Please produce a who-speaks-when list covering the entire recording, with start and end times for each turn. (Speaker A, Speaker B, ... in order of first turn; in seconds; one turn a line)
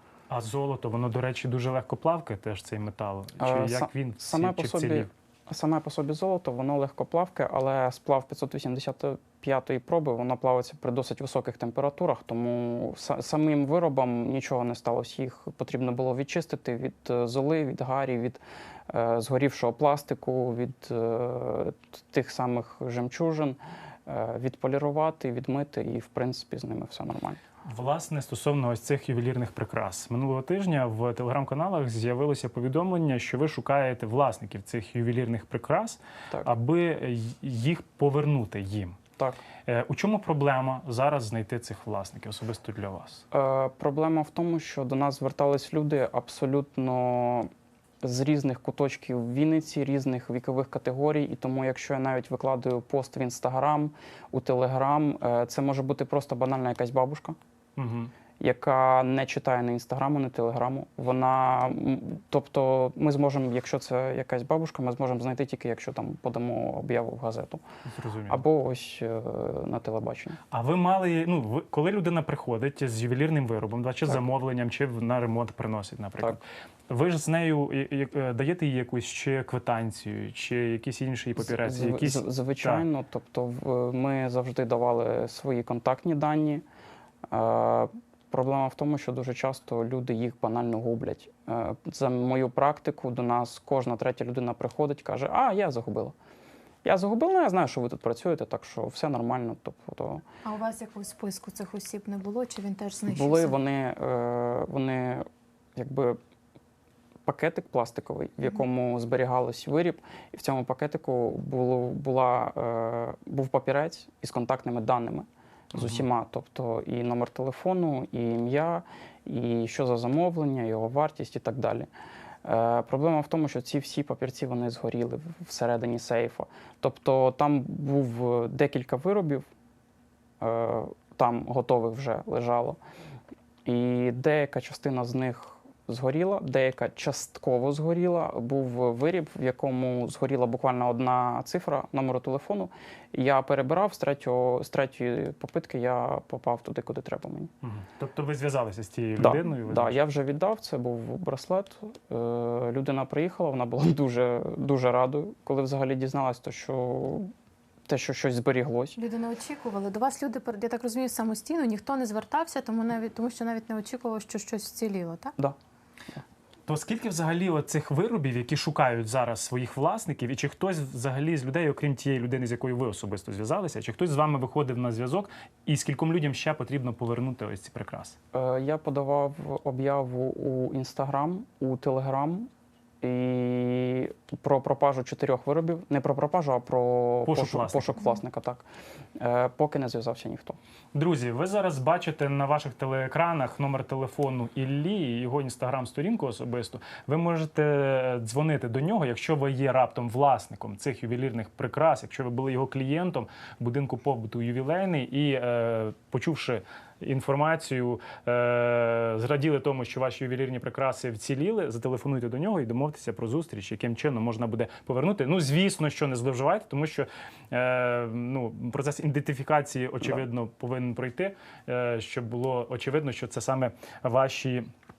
Speaker A: 0.3-5.1
Speaker B: 3.4-27.4
Speaker A: 27.6-39.0
Speaker A: 39.6-43.2
Speaker B: 43.3-47.5
Speaker B: 48.0-57.4
Speaker A: 57.8-58.1
Speaker B: 58.4-67.6
Speaker A: 67.8-68.4
Speaker B: 68.3-70.4
Speaker A: 70.5-82.8
Speaker B: 81.4-86.6
Speaker B: 87.3-96.1
Speaker B: 96.8-100.2
Speaker C: 100.4-103.5
Speaker B: 103.1-105.2
Speaker B: 105.8-106.2
Speaker B: 107.2-121.9
Speaker A: 115.7-116.0
Speaker B: 122.4-129.4
Speaker B: 130.4-132.8
Speaker B: 133.6-147.5
Speaker A: 147.6-150.0
Speaker B: 149.2-157.3
Speaker B: 157.9-159.0
Speaker C: 159.0-165.3
Speaker A: 166.7-178.2
Speaker B: 178.3-182.5
Speaker B: 183.0-188.7
Speaker A: 187.2-188.0
Speaker B: 189.2-190.6
Speaker A: 190.9-224.7